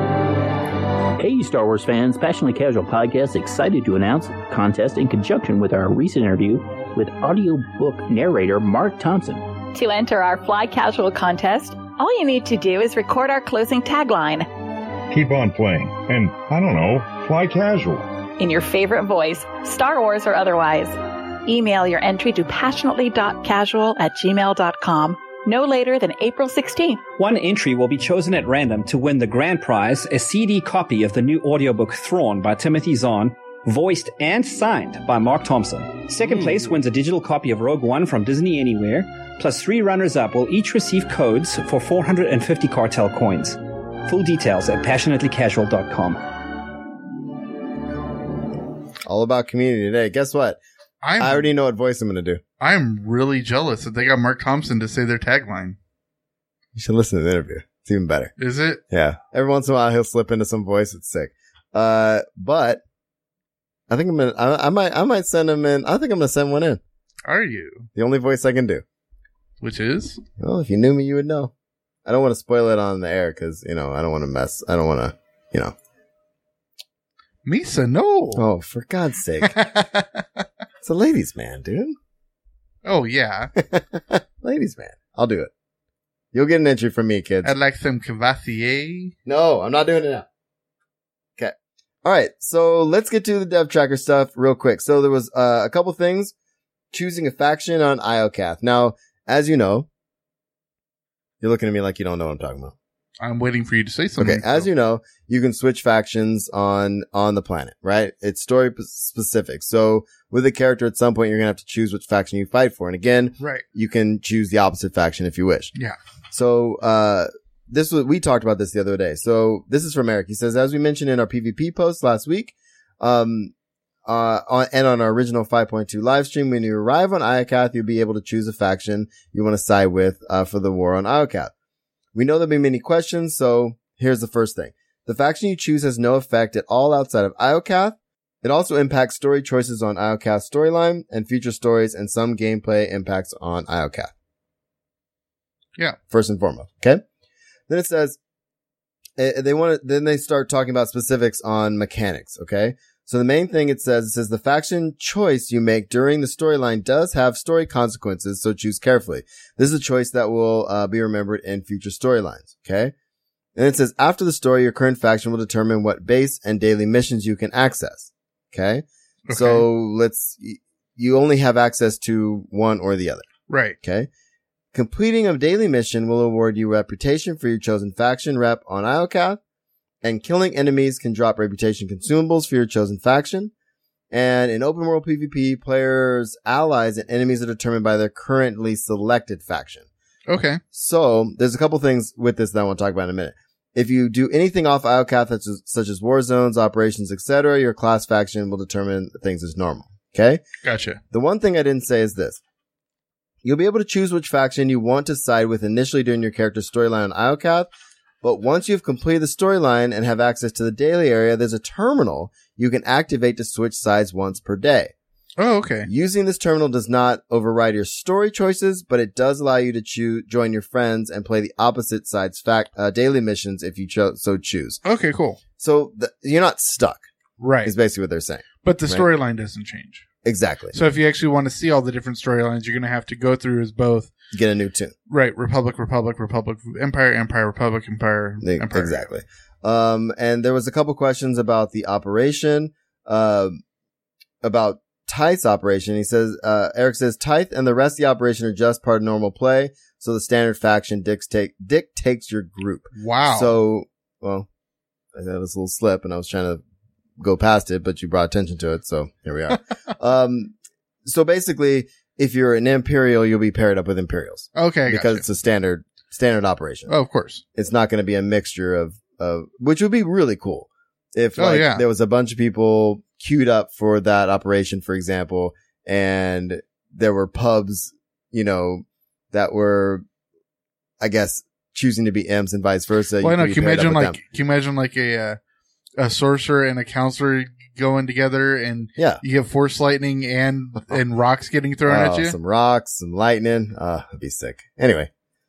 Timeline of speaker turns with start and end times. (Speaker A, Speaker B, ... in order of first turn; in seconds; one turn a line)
Speaker A: 1.2-9.4
Speaker B: 9.7-14.5
Speaker C: 15.1-18.1
Speaker B: 18.4-27.0
Speaker D: 27.2-46.2
Speaker E: 36.2-36.7
Speaker F: 49.0-50.6
Speaker E: 51.0-51.5
Speaker F: 51.2-52.4
Speaker E: 52.6-55.8
Speaker F: 56.7-58.3
Speaker E: 58.4-58.8
Speaker F: 58.9-62.8
Speaker F: 63.9-66.8
Speaker E: 67.3-67.9
Speaker F: 68.0-68.8
Speaker E: 69.6-70.2
Speaker F: 70.4-71.5
Speaker F: 72.0-75.7
Speaker E: 77.4-78.4
Speaker F: 78.3-79.6
Speaker E: 79.4-80.2
Speaker F: 80.8-82.0
Speaker E: 82.8-83.5
Speaker F: 83.6-85.5
Speaker F: 86.3-87.5
Speaker E: 87.4-89.1
Speaker F: 89.2-90.2
Speaker F: 91.4-96.3
Speaker F: 96.9-99.9
Speaker F: 101.4-102.7
Speaker E: 103.2-104.7
Speaker F: 104.2-115.7
Speaker E: 113.4-113.6
Speaker F: 116.3-123.5
Speaker F: 124.0-131.5
Speaker F: 132.1-144.1
Speaker F: 146.1-147.0
Speaker F: 147.7-148.2
Speaker F: 149.2-162.9
Speaker F: 163.6-173.3
Speaker E: 169.3-169.7
Speaker E: 173.5-173.8
Speaker F: 173.8-174.1
Speaker F: 174.7-179.4
Speaker F: 180.0-183.5
Speaker F: 184.1-189.9
Speaker E: 190.3-190.6
Speaker F: 190.7-200.4
Speaker E: 200.6-201.0
Speaker F: 201.1-202.4
Speaker F: 203.4-207.7
Speaker F: 208.2-214.9
Speaker E: 215.4-215.9
Speaker F: 215.8-224.8
Speaker E: 224.8-225.4
Speaker F: 225.6-227.0
Speaker E: 227.4-227.7
Speaker F: 227.6-229.1
Speaker E: 228.6-230.0
Speaker F: 230.2-230.8
Speaker E: 230.7-234.1
Speaker F: 234.3-234.9
Speaker E: 235.1-239.1
Speaker F: 238.4-243.6
Speaker F: 244.4-254.5
Speaker E: 252.9-253.5
Speaker F: 255.1-256.6
Speaker F: 257.2-260.5
Speaker F: 261.0-266.9
Speaker E: 264.5-265.2
Speaker E: 266.9-267.4
Speaker F: 267.6-280.0
Speaker E: 271.4-271.8
Speaker F: 281.0-284.2
Speaker E: 283.2-285.4
Speaker E: 286.0-292.4
Speaker F: 288.9-289.2
Speaker F: 291.9-295.1